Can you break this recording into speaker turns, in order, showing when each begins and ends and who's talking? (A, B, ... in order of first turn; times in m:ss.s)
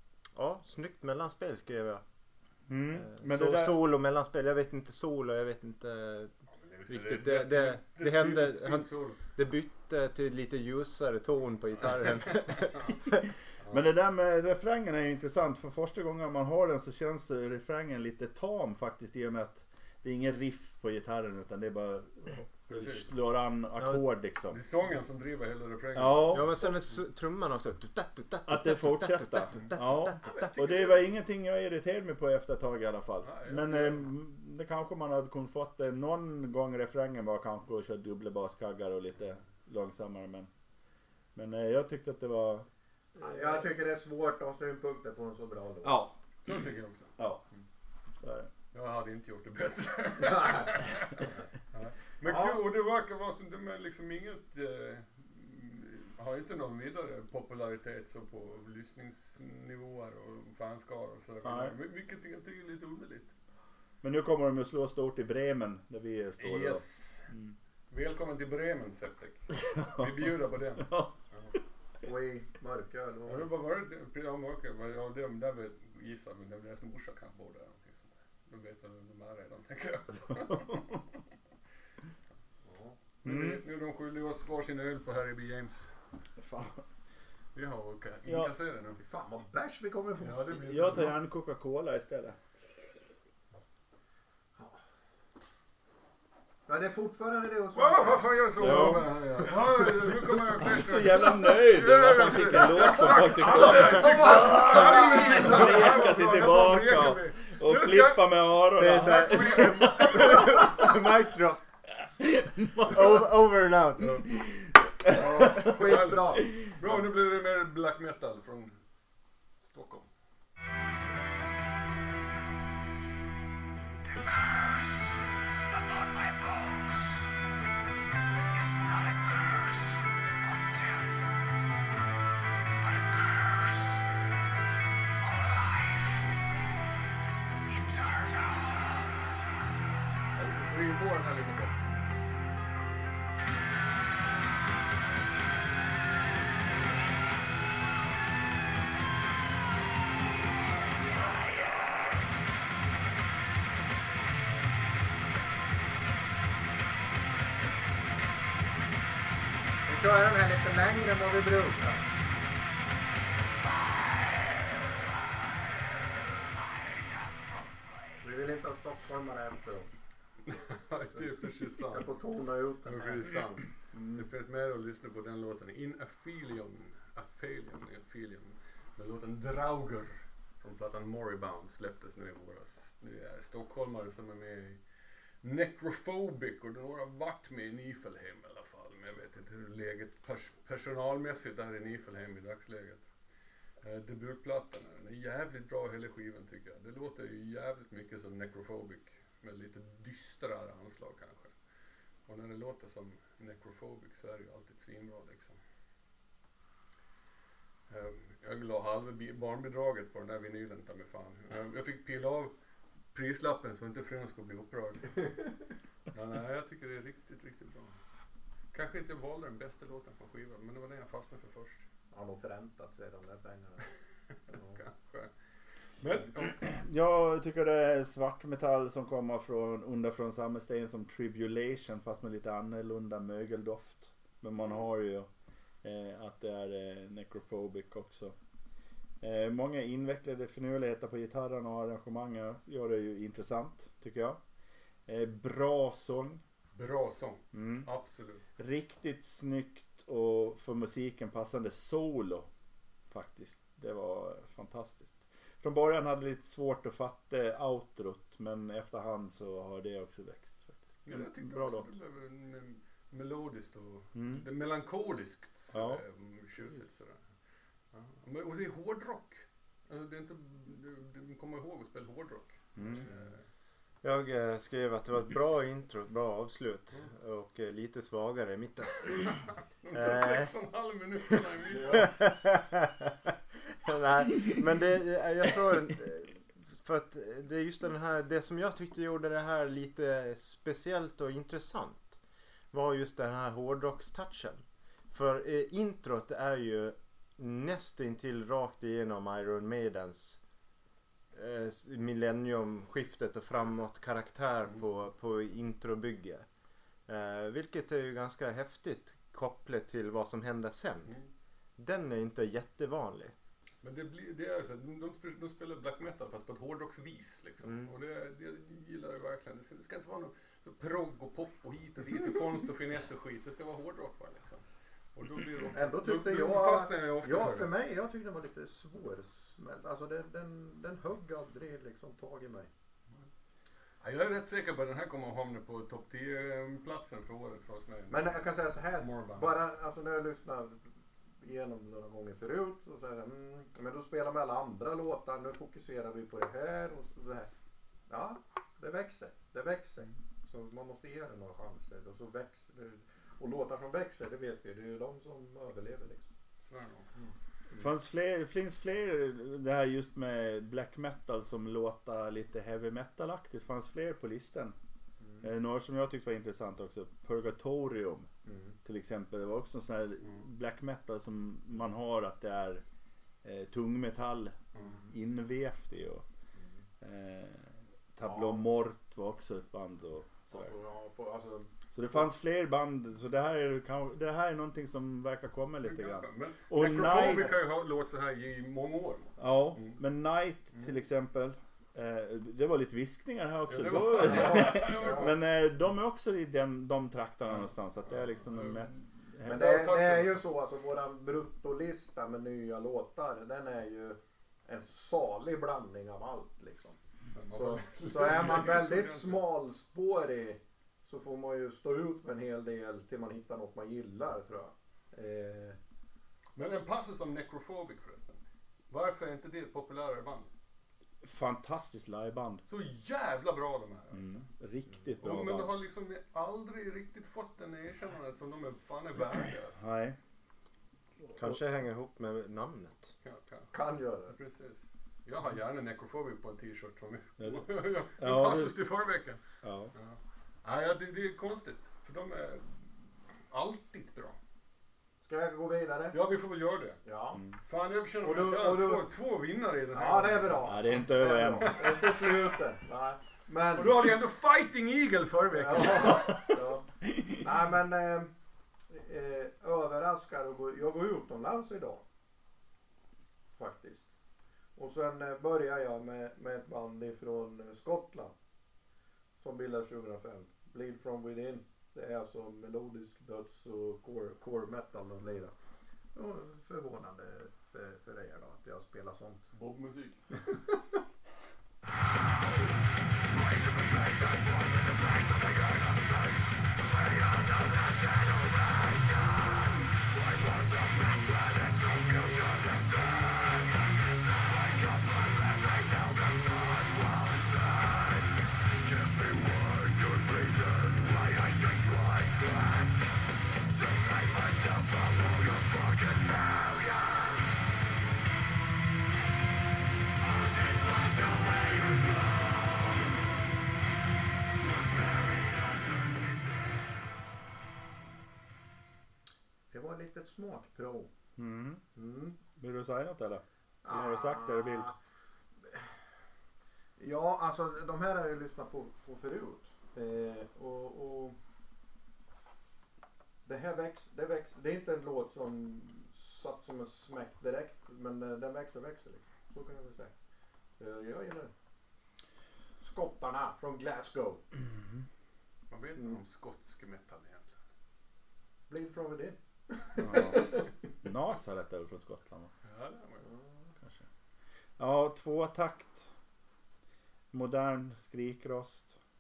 0:00.4-0:02.0 A
0:02.7-0:03.8 B
0:02.9-0:06.3 A
0:06.6-0:09.2 C
0:06.9-0:13.2 A
0:13.7-0:24.6 B
0:22.7-0:23.1 C
0:23.8-0:24.0 A
0:24.5-0:27.0 C
0:25.9-0:26.6 B
0:26.3-0:30.6 A
0:28.5-0:40.5 B
0:30.2-0:31.1 C
0:33.2-0:34.1 C
0:41.4-0:42.7 B
0:43.2-0:46.0 D
0:45.8-0:46.2 B
0:46.4-0:47.1 C
0:47.2-0:47.4 B
0:48.2-0:48.5 B
0:48.7-1:03.3 C
0:50.2-0:50.9 D
0:52.2-0:52.6 D
1:01.4-1:01.8 B
1:04.0-1:07.6 B
1:06.4-1:07.3 C
1:07.9-1:11.6 C
1:09.5-1:11.6 B
1:12.0-1:13.5 D
1:13.3-1:21.0 C
1:20.5-1:20.8 B
1:22.6-1:23.0 D
1:23.2-1:25.9 C
1:23.2-1:23.6 B
1:26.4-1:26.8 B
1:27.6-1:29.0 C
1:28.3-1:28.5 B
1:29.0-1:30.6 D
1:30.2-1:31.2 C
1:30.6-1:32.4 B
1:36.7-1:39.0 D
1:37.7-1:48.5 C
1:38.6-1:50.5 B
1:43.2-1:46.2 D
1:48.8-1:51.6 A
1:49.0-1:50.6 C
1:49.0-1:50.1 D
1:52.2-1:53.0 B
1:52.8-1:54.2 A
1:55.1-1:58.8 C
1:55.1-1:57.0 D
1:59.6-2:00.1 C
2:04.0-2:07.3 E
2:08.5-2:11.3 E
2:12.8-2:14.0 E
2:15.2-2:16.3 E
2:17.7-2:19.1 E
2:20.3-2:21.9 C
2:39.9-2:42.1 D
2:48.2-2:49.9 D
2:50.5-2:52.1 C
2:51.9-2:54.3 D
2:52.8-3:04.8 C
3:05.4-3:13.0 C
3:13.8-3:21.5 C
3:22.3-3:25.6 C
3:27.9-3:32.5 C
3:33.1-3:35.2 C
3:36.1-3:38.0 C
3:38.7-3:41.9 C
3:42.1-3:43.9 D
3:44.5-3:44.8 D
3:44.6-3:45.3 C
3:46.0-3:46.6 C
3:46.4-3:55.3 B
3:55.8-3:58.4 B
3:59.2-4:04.4 B
4:05.1-4:06.4 B
4:06.8-4:08.4 C
4:07.5-4:07.9 B
4:08.6-4:12.5 B
4:13.1-4:22.0 B
4:21.0-4:27.2 C
4:24.2-4:24.5 B
4:25.7-4:26.0 B
4:27.9-4:33.4 C
4:32.8-4:33.1 B
4:34.0-4:39.3 A
4:39.1-4:42.1 C
4:39.9-4:40.5 A
4:41.7-4:42.1 D
4:41.9-4:43.3 A
4:43.9-4:52.2 A
4:52.7-5:00.4 A
5:01.3-5:06.5 A
5:07.1-5:11.2 A
5:11.8-5:13.3 A
5:13.8-5:24.6 C
5:17.6-5:17.9 A
5:25.2-5:27.7 C
5:25.7-5:32.7 D
5:34.0-5:38.4 C
5:38.1-5:40.8 D
5:39.0-5:39.5 C
5:41.4-5:47.5 D
5:48.1-5:56.3 D
5:56.7-5:57.1 C
5:57.2-5:57.9 D
5:57.8-6:04.8 B
6:05.2-6:05.5 D
6:05.4-6:08.3 B
6:08.5-6:08.8 D
6:08.8-6:12.8 B
6:13.4-6:16.2 B
6:14.8-6:15.0 D
6:17.0-6:20.7 B
6:18.2-6:18.6 D
6:20.5-6:22.2 D
6:21.9-6:27.6 B
6:25.8-6:30.0 C
6:27.0-6:27.6 D
6:29.4-6:40.3 B
6:33.7-6:35.4 C
6:34.2-6:35.3 D
6:38.4-6:38.9 C
6:39.5-6:47.0 D
6:39.9-6:40.3 C
6:47.4-6:49.5 C
6:47.5-6:55.8 D
6:56.6-7:00.5 C
7:01.2-7:02.6 B
7:02.7-7:04.4 C
7:04.1-7:05.8 B
7:05.2-7:09.8 C
7:09.8-7:10.2 B
7:11.4-7:13.1 A
7:13.2-7:19.4 C
7:13.7-7:14.4 D
7:17.4-7:18.8 B
7:19.6-7:19.9 B
7:20.0-7:22.9 C
7:23.5-7:24.4 C
7:25.2-7:26.2 D
7:26.1-7:27.0 C
7:27.0-7:27.4 D
7:27.7-7:32.6 C
7:28.2-7:29.1 D
7:29.9-7:34.2 D
7:30.6-7:31.9 B
7:33.8-7:36.5 C
7:35.5-7:38.3 D
7:38.9-7:42.0 D
7:43.6-7:44.1 D
7:44.8-7:48.3 D
7:49.4-7:55.5 D
7:56.2-7:59.4 D
7:59.5-8:00.2 C
8:03.3-8:23.1 E
8:23.7-8:27.5 E
8:30.2-8:32.9 E
8:34.6-8:36.7 E
8:39.7-8:41.1 D
8:41.4-8:41.8 B
8:42.0-8:42.4 D
8:42.6-8:44.9 B
8:43.8-8:45.0 D
8:47.0-8:51.4 D
8:53.5-9:00.1 D
9:00.8-9:01.5 D
9:02.8-9:04.4 D
9:05.7-9:07.6 C
9:08.7-9:10.7 D
9:10.0-9:12.5 B
9:12.6-9:13.3 C
9:13.2-9:13.7 D
9:14.8-9:16.1 B
9:17.3-9:19.0 B